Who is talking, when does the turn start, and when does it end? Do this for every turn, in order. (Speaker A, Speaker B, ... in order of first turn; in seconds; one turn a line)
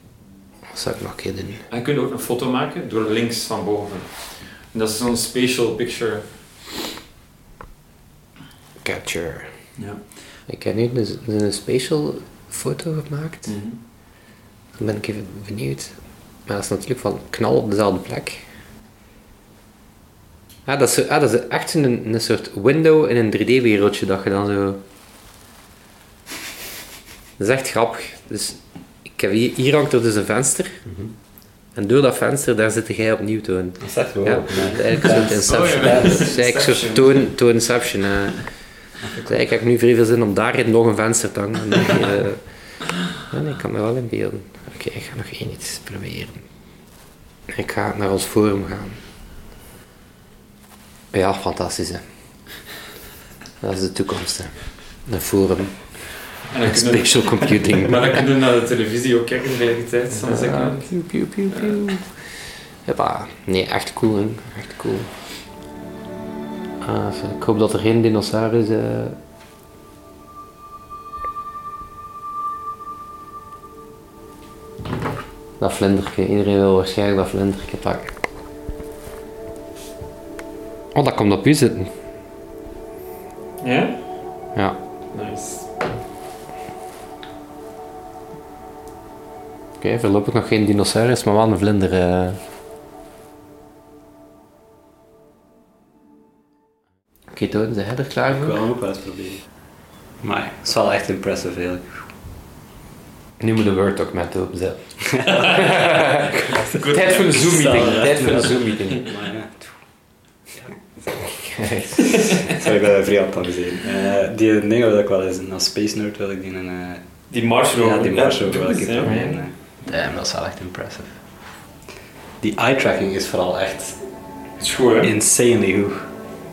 Speaker A: 0.7-1.6
Speaker B: 1.7-6.5
Speaker A: 8.8-9.8
Speaker B: 9.8-10.1
Speaker A: 10.5-13.6
Speaker B: 13.5-13.8
Speaker A: 14.8-18.5
Speaker A: 20.7-24.8
Speaker A: 27.4-30.8
Speaker C: 30.9-31.1
Speaker A: 31.8-38.5
Speaker C: 33.8-36.3
Speaker B: 34.6-37.3
Speaker A: 39.2-42.5
Speaker A: 43.1-46.5
Speaker A: 47.5-49.0
Speaker A: 51.1-52.0
Speaker A: 53.6-58.2
Speaker B: 56.5-61.8
Speaker A: 60.2-62.2
Speaker A: 62.8-65.1
Speaker A: 66.8-69.2
Speaker A: 75.6-78.2
Speaker A: 80.9-81.9
Speaker B: 83.6-84.0
Speaker B: 85.1-85.7
Speaker A: 89.8-92.4
Speaker A: 97.3-98.6
Speaker C: 98.3-102.2
Speaker A: 103.4-109.0
Speaker C: 105.3-105.7
Speaker B: 105.3-105.8
Speaker C: 106.5-110.8
Speaker B: 106.8-109.0
Speaker A: 111.2-112.4
Speaker C: 112.5-121.5
Speaker B: 117.3-119.3
Speaker A: 119.0-119.4
Speaker C: 122.4-124.0
Speaker B: 124.6-125.1
Speaker C: 125.0-126.1